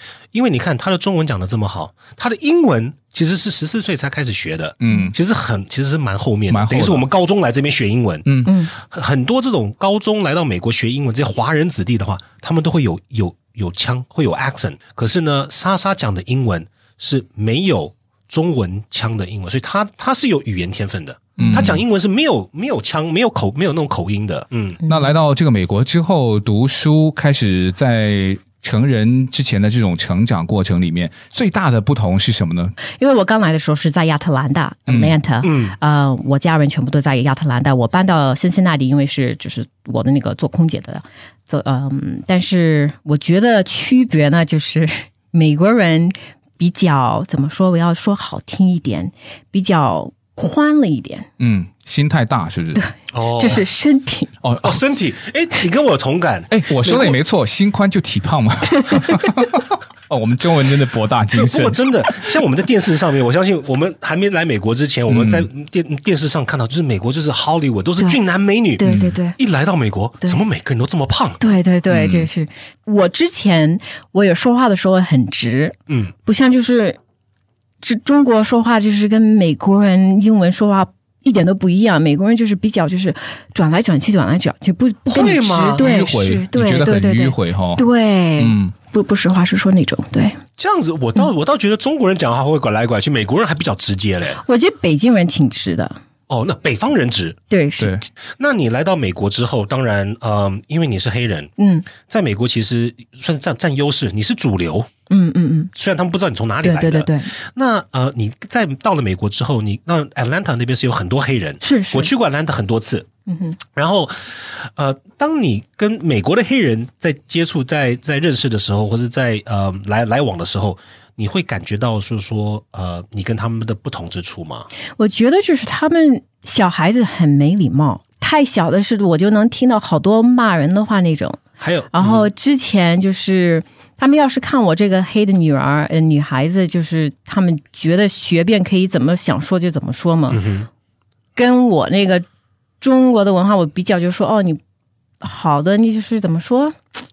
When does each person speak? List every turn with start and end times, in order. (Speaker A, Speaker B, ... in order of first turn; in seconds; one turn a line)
Speaker A: 0.3-24.8
Speaker B: 4.8-5.1
Speaker B: 6.5-7.1
Speaker B: 8.3-8.5
Speaker C: 8.4-8.7
Speaker B: 21.4-21.8
Speaker B: 24.9-32.8
Speaker C: 33.0-51.3
Speaker B: 34.9-35.1
Speaker A: 35.4-35.8
Speaker B: 51.4-52.8
Speaker C: 52.8-54.3
Speaker A: 53.1-53.7
Speaker B: 54.4-54.8
Speaker A: 54.6-57.2
Speaker B: 56.5-62.4
Speaker C: 58.8-59.2
Speaker A: 61.3-71.4
Speaker B: 65.1-65.5
Speaker C: 68.8-69.4
Speaker B: 68.8-69.2
Speaker C: 71.4-77.0
Speaker B: 71.9-72.3
Speaker C: 77.8-90.4
Speaker A: 85.1-85.9
Speaker B: 85.8-87.8
Speaker B: 88.4-88.7
Speaker A: 90.6-94.4
Speaker C: 94.4-96.0
Speaker A: 96.3-97.4
Speaker C: 97.5-98.0
Speaker B: 97.8-98.0
Speaker A: 98.4-104.9
Speaker C: 101.6-101.9
Speaker C: 105.1-105.7
Speaker A: 105.8-113.1
Speaker C: 106.6-107.3
Speaker C: 111.6-112.1
Speaker C: 113.3-113.6
Speaker A: 113.6-124.7
Speaker C: 125.0-140.5
Speaker A: 131.6-132.3
Speaker A: 140.3-140.7
Speaker C: 141.4-142.2
Speaker C: 142.8-144.6
Speaker C: 145.2-146.8